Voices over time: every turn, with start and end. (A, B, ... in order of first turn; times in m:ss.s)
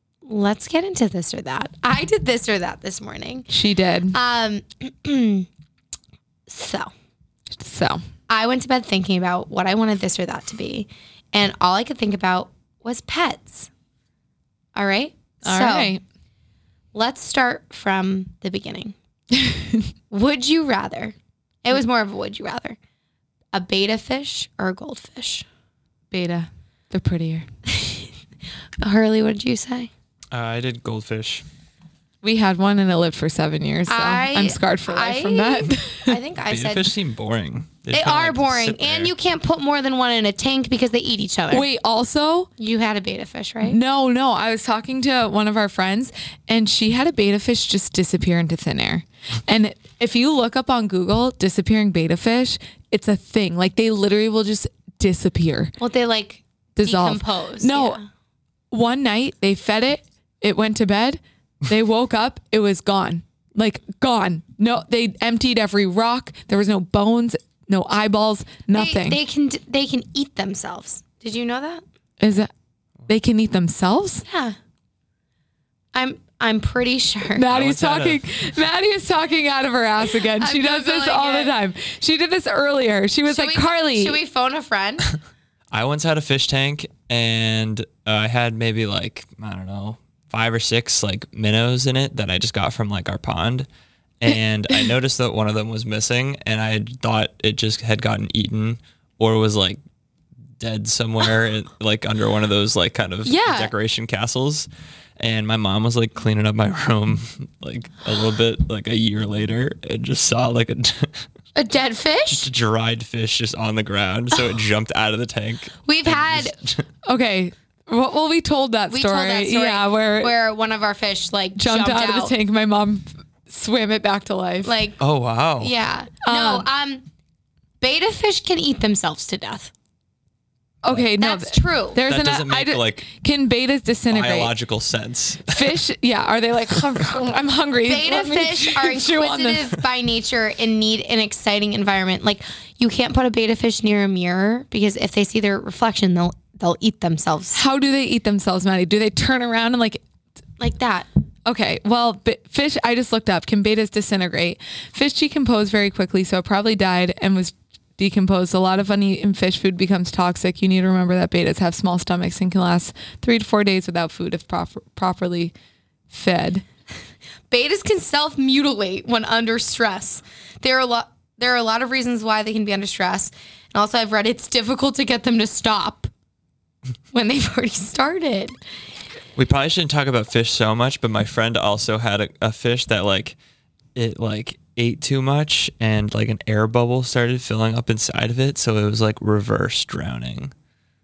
0:00.3-0:03.5 A
0:03.5-0:04.2 B
0:04.1-0:05.5 A
0:06.5-0:06.9 A
0:07.6-0:08.0 B
0:08.3-0:13.7 A
0:14.8-0:16.0 A
0:15.4-0:16.0 B
0:16.9-0:19.0 A
0:19.3-0:19.9 B
0:20.1-0:22.8 A
0:23.5-0:25.4 A
0:26.1-0:27.5 B
0:27.7-0:28.1 A
0:28.8-0:29.9 A
0:30.3-0:31.4 C
0:32.2-0:36.2 B
0:33.9-0:36.9 A
0:36.5-0:39.1 C
0:37.9-0:41.7 A
0:41.5-0:42.5 B
0:42.6-0:43.8 A
0:43.6-0:55.7 B
0:55.8-0:58.1 A
0:56.8-0:58.0 B
0:58.7-1:09.2 B
1:08.7-1:11.8 A
1:12.2-1:12.5 B
1:13.1-1:14.2 B
1:14.3-1:14.6 A
1:15.9-1:17.4 A
1:17.4-1:24.2 B
1:17.5-1:18.2 C
1:20.4-1:21.5 A
1:23.3-1:25.1 A
1:25.7-1:33.7 C
1:34.2-1:39.8 C
1:40.6-1:44.7 C
1:43.2-1:43.7 A
1:45.2-1:51.3 C
1:51.6-1:52.5 A
1:52.3-1:56.8 C
1:55.9-1:56.6 A
1:57.0-2:00.3 B
1:58.9-2:02.3 A
2:01.6-2:04.7 B
2:04.6-2:05.0 A
2:05.0-2:05.7 C
2:05.6-2:07.0 A
2:06.2-2:06.7 B
2:07.8-2:09.7 A
2:10.8-2:14.5 B
2:11.2-2:12.0 A
2:12.1-2:13.0 C
2:14.1-2:15.7 C
2:15.5-2:19.7 B
2:17.8-2:27.6 A
2:27.5-2:30.0 B
2:30.6-2:31.1 A
2:31.4-2:45.5 B
2:46.1-2:46.6 B
2:47.5-2:56.1 A
2:57.1-2:58.6 A
2:59.4-3:03.4 C
3:04.0-3:10.5 C